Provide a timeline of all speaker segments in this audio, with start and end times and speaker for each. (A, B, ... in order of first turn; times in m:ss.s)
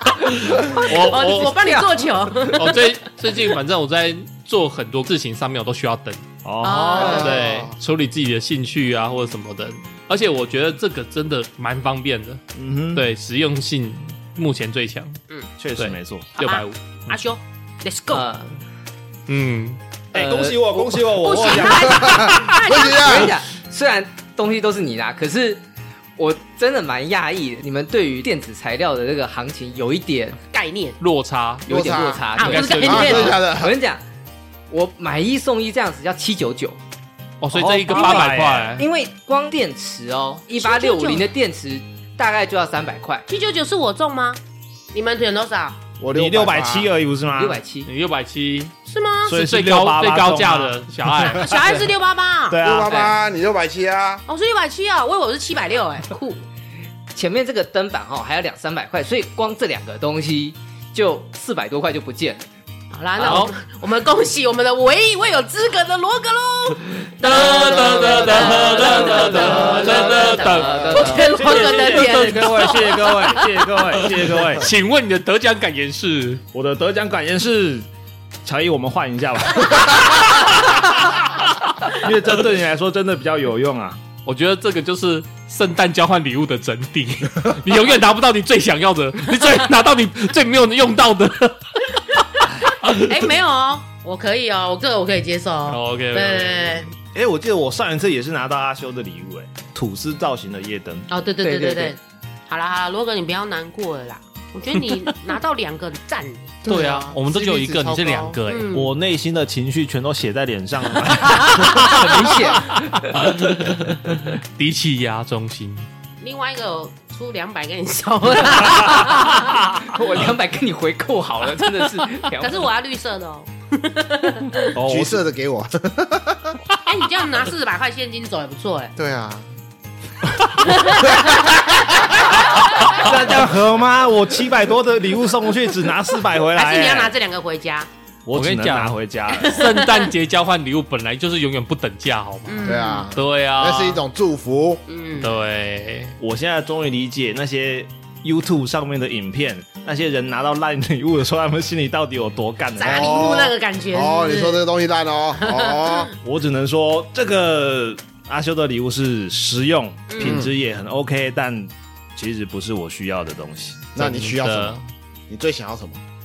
0:00.2-0:01.8 A
0:00.6-0:02.8 B
0:01.1-0:02.0 C
0:02.4-0:06.2 A
0:06.4-0:07.4 D
0:06.6-0:07.5 B
0:06.9-0:07.7 E
0:07.0-0:12.4 A
0:12.6-0:13.0 D
0:12.9-0:15.2 A
0:15.6-0:16.4 D
0:15.8-0:17.2 A
0:16.4-0:18.2 B
0:18.1-0:18.6 C
0:19.3-0:19.8 A
0:20.1-0:22.4 D
0:20.1-0:21.1 C
0:21.2-0:23.3 B
0:21.7-0:23.4 E
0:22.8-0:25.6 C
0:26.2-0:30.4 C
0:30.5-0:31.0 B
0:31.0-0:31.7 A
0:31.7-0:32.3 E
0:31.7-0:34.0 C
0:32.4-0:33.4 B
0:32.4-0:33.4 A
0:32.8-0:33.8 E
0:34.7-0:36.8 C
0:37.4-0:38.9 A
0:37.5-0:38.8 D
0:37.9-0:43.3 C
0:40.6-0:41.3 B
0:43.3-0:44.4 B
0:44.9-0:45.8 B
0:46.0-0:46.9 E
0:46.1-0:47.6 D
0:47.3-0:47.9 C
0:47.9-0:48.7 A
0:48.9-0:49.4 B
0:49.2-0:51.6 D
0:49.3-0:51.5 A
0:51.3-0:52.6 B
0:52.5-0:52.9 D
0:52.6-0:54.2 E
0:52.9-0:53.2 C
0:54.3-0:56.4 B
0:57.1-1:02.5 C
1:02.9-1:13.4 B
1:03.2-1:03.5 A
1:07.2-1:13.4 A
1:07.5-1:08.9 E
1:08.5-1:09.7 D
1:09.4-1:11.3 C
1:09.8-1:11.1 E
1:11.2-1:14.7 D
1:13.9-1:16.4 A
1:16.5-1:17.9 D
1:18.4-1:21.2 D
1:21.9-1:24.0 D
1:24.3-1:31.8 A
1:32.8-1:36.9 B
1:35.7-1:36.8 A
1:37.1-1:41.1 D
1:41.1-1:46.6 B
1:41.4-1:42.0 C
1:46.6-1:48.4 E
1:46.7-1:48.7 A
1:48.5-1:48.9 B
1:48.7-1:52.1 D
1:51.8-1:53.1 C
1:52.8-1:55.9 A
1:56.2-1:59.7 B
1:58.6-2:02.6 C
2:02.4-2:04.8 B
2:04.8-2:05.2 D
2:04.8-2:06.6 E
2:06.9-2:08.9 B
2:09.0-2:09.5 E
2:10.6-2:13.3 B
2:11.1-2:11.4 E
2:12.8-2:17.1 D
2:16.6-2:17.9 B
2:18.3-2:19.6 D
2:18.3-2:24.0 A
2:19.3-2:20.1 B
2:22.5-2:23.1 B
2:22.6-2:24.8 E
2:24.9-2:25.4 B
2:25.2-2:26.2 A
2:26.2-2:33.4 D
2:32.8-2:34.6 B
2:32.9-2:36.1 E
2:35.4-2:36.1 B
2:36.2-2:43.9 D
2:40.1-2:40.5 B
2:40.2-2:40.5 E
2:44.0-2:46.0 E
2:44.0-2:44.8 A